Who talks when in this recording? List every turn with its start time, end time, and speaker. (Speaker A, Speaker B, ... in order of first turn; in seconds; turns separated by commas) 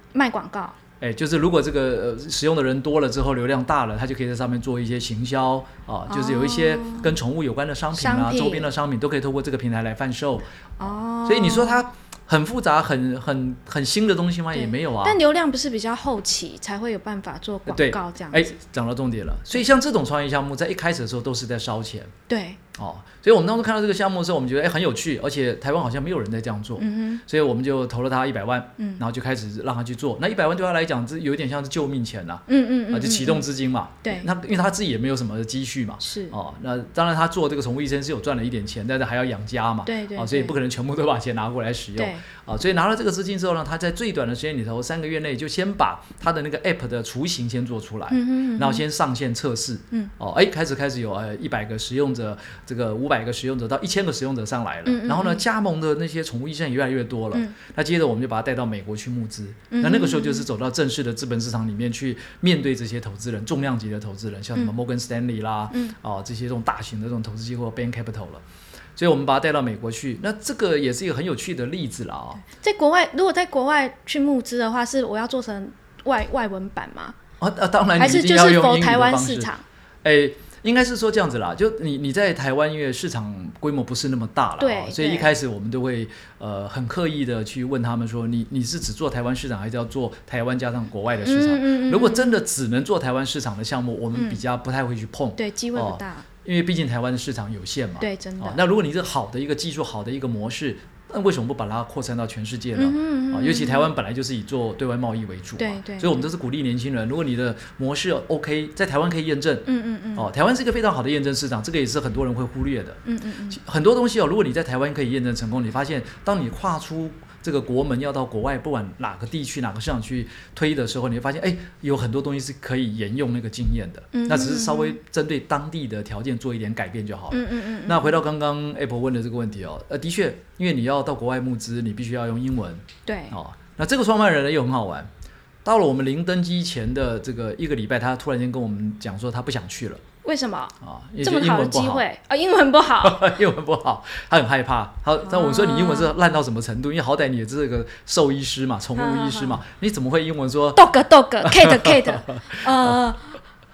Speaker A: 0.1-0.8, Speaker B: 1.0-10.5, Speaker A: 6.1-7.2, Speaker A: 7.9-8.7, Speaker A: 10.8-11.8, Speaker B: 11.2-15.2, Speaker A: 14.5-18.5, Speaker B: 17.7-22.1, Speaker A: 22.3-22.6, Speaker B: 22.7-68.4, Speaker A: 26.8-27.2, Speaker A: 32.5-33.5, Speaker A: 34.0-34.3, Speaker A: 36.0-36.3, Speaker A: 39.9-40.5, Speaker A: 42.0-42.2, Speaker A: 48.1-48.8, Speaker A: 54.8-55.4, Speaker A: 59.7-60.5, Speaker B: 69.0-72.4, Speaker A: 72.4-77.2, Speaker B: 77.4-79.5, Speaker A: 78.0-79.6, Speaker B: 80.0-135.1, Speaker A: 84.6-85.3, Speaker A: 91.2-92.4, Speaker A: 94.1-94.4, Speaker A: 95.4-96.2, Speaker A: 98.0-98.6, Speaker A: 102.7-103.9, Speaker A: 105.6-106.2, Speaker A: 109.7-110.3, Speaker A: 113.0-113.6, Speaker A: 124.1-125.0, Speaker A: 127.3-128.2, Speaker A: 133.1-133.3, Speaker B: 135.6-140.0, Speaker A: 140.2-143.3, Speaker B: 140.8-142.0, Speaker B: 143.0-150.9, Speaker A: 145.2-146.1, Speaker A: 148.9-149.6, Speaker A: 150.7-153.3, Speaker B: 151.4-153.0